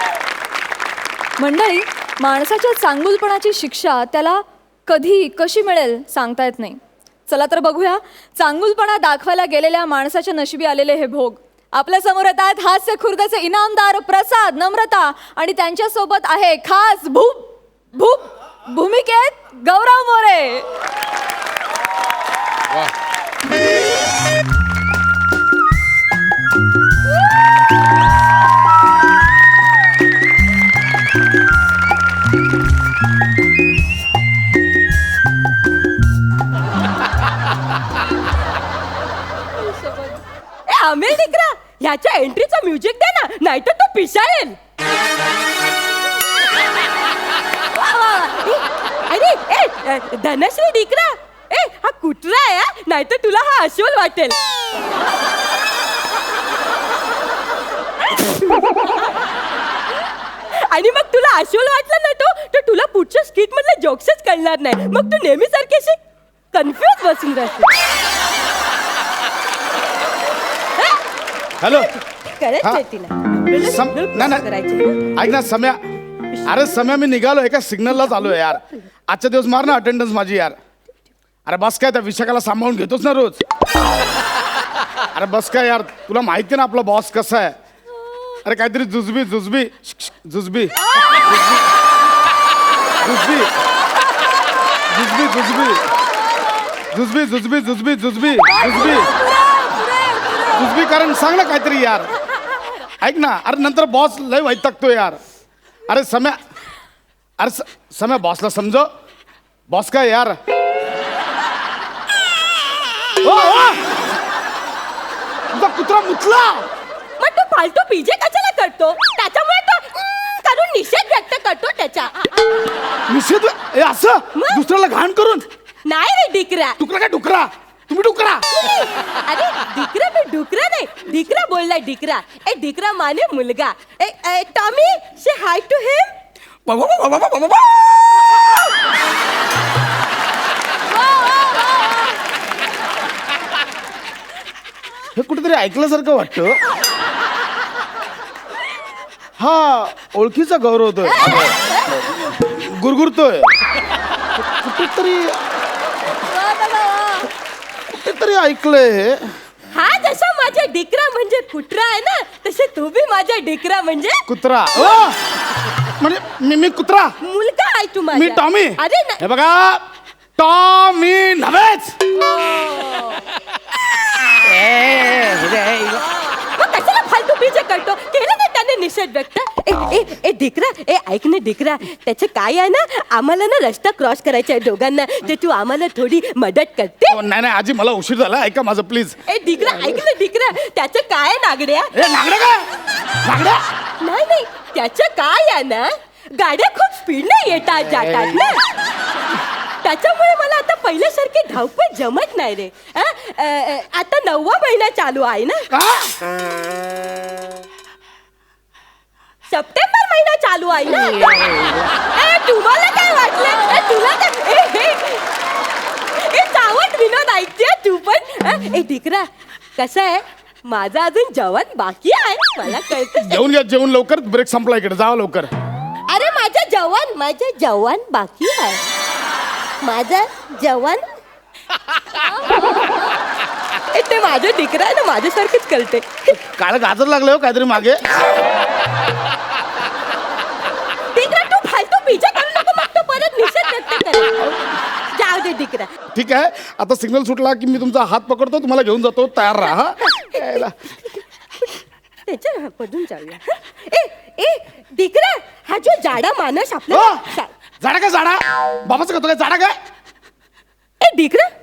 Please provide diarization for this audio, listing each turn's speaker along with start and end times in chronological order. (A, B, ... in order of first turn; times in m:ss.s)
0:01.4-0:20.6 A
0:39.7-0:40.1 A
0:40.7-0:44.6 B
0:47.8-0:54.4 B
0:58.2-0:58.9 B
1:00.5-1:06.0 B
1:06.5-1:07.7 B
1:11.6-1:11.9 C
1:11.6-1:15.0 B
1:13.6-1:14.4 C
1:15.1-1:15.8 C
1:16.3-1:16.7 B
1:16.4-1:20.6 C
1:18.0-1:18.6 B
1:21.4-1:23.4 C
1:25.1-1:27.6 C
1:28.4-1:31.4 C
1:33.0-1:33.5 C
1:34.9-1:35.9 C
1:36.9-1:39.1 C
1:38.5-1:40.7 A
1:40.5-1:42.1 C
1:43.0-1:45.2 C
1:45.9-1:46.4 C
1:47.4-1:48.9 C
1:49.7-1:50.4 C
1:53.2-1:53.9 C
1:55.5-1:56.6 C
1:57.2-2:02.2 B
2:03.1-2:05.4 C
2:04.4-2:04.6 B
2:05.8-2:06.8 B
2:06.8-2:08.4 C
2:08.5-2:16.1 B
2:16.6-2:17.7 C
2:25.1-2:26.5 C
2:29.4-2:31.5 C
2:31.0-2:31.9 B
2:32.3-2:33.5 C
2:34.5-2:35.4 C
2:36.2-2:37.3 A
2:37.9-2:39.2 C
2:39.7-2:44.2 B
2:44.3-2:45.2 C
2:44.8-2:45.1 B
2:46.0-2:47.1 C
2:47.2-2:49.2 B
2:48.1-2:49.8 C
2:50.4-2:52.0 C
2:52.2-2:53.2 B
2:54.6-2:55.9 C
2:56.3-3:07.2 B
3:07.1-3:09.2 C
3:09.3-3:11.9 B
3:11.9-3:12.6 C
3:13.2-3:13.6 C
3:14.0-3:18.6 B
3:19.8-3:25.7 B
3:25.7-3:26.2 C
3:29.5-3:35.2 B
3:36.2-3:43.4 B
3:43.2-3:45.5 C
3:46.1-3:48.8 B
3:49.8-3:51.0 B
3:52.2-3:53.0 B
3:53.9-3:56.2 B
3:56.3-3:58.0 C
4:01.1-4:04.4 B
4:05.1-4:05.9 B
4:06.1-4:10.7 C
4:10.0-4:10.6 B
4:11.6-4:17.5 B
4:16.9-4:17.2 C
4:17.8-4:19.7 C
4:21.0-4:21.5 B